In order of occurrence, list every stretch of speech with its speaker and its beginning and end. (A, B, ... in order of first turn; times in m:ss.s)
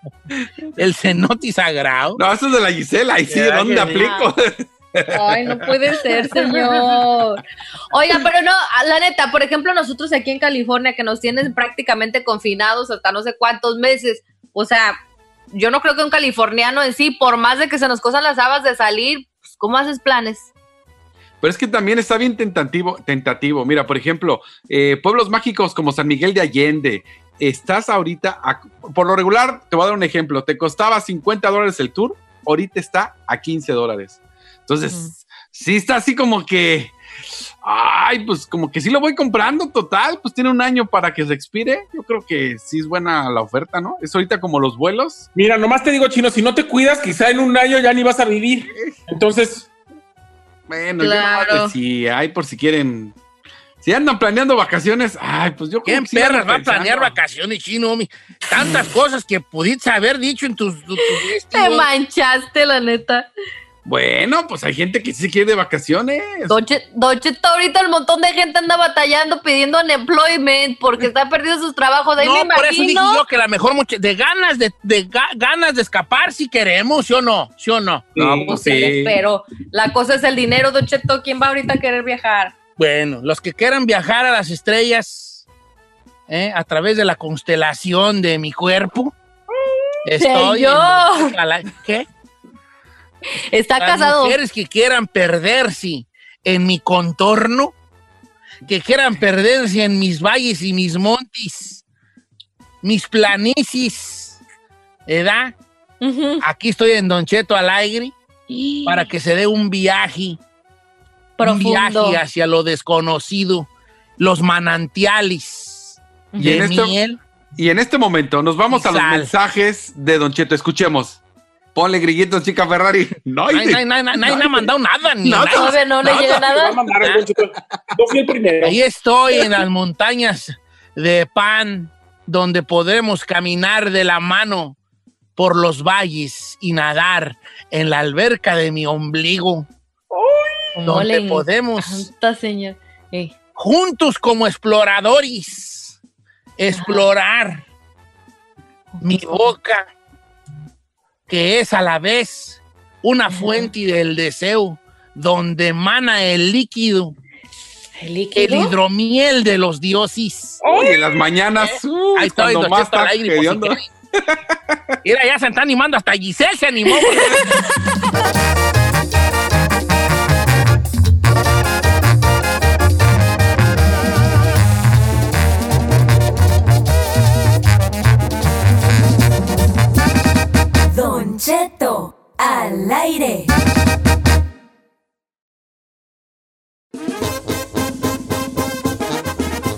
0:00.8-0:02.2 A
0:02.2-0:05.7 B
0:03.6-0:03.9 A
0:03.9-0:04.3 C
0:05.1-0:15.0 C
0:15.5-0:20.5 C
0:21.4-0:36.9 B
0:37.6-0:45.3 B
0:45.3-0:49.7 D
0:50.7-0:53.1 B
0:51.0-0:51.7 C
0:53.8-0:57.1 B
0:55.8-1:01.9 A
1:01.5-1:03.3 C
1:03.8-1:06.6 B
1:06.5-1:13.2 C
1:12.2-1:18.1 A
1:18.2-1:19.1 B
1:18.2-1:22.5 C
1:22.8-1:25.4 A
1:26.3-1:29.1 A
1:30.0-1:32.1 A
1:30.1-1:31.3 C
1:33.5-1:34.4 C
1:33.8-1:37.7 A
1:38.6-1:41.8 A
1:42.8-1:44.4 A
1:45.1-1:45.6 A
1:46.0-1:46.4 C
1:46.4-1:48.1 A
1:48.5-1:49.1 C
1:48.8-1:50.4 A
1:51.4-1:52.2 C
1:51.4-1:57.2 A
1:56.3-1:56.6 C
1:56.4-1:56.9 B
1:57.6-2:01.2 B
1:58.7-1:59.3 A
2:01.7-2:03.8 B
2:03.5-2:05.8 A
2:05.2-2:08.8 D
2:05.5-2:06.8 C
2:08.6-2:14.8 A
2:15.4-2:19.7 A
2:20.1-2:23.3 C
2:20.8-2:22.1 A
2:23.6-2:26.0 A
2:26.6-2:27.6 A
2:26.7-2:27.0 C
2:29.0-2:29.4 C
2:29.0-2:29.9 A
2:31.3-2:37.1 A
2:33.3-2:33.6 C
2:38.0-2:38.7 C
2:38.3-2:40.6 A
2:40.6-2:44.4 B
2:42.1-2:43.9 A
2:45.0-2:47.5 A
3:00.9-3:03.5 E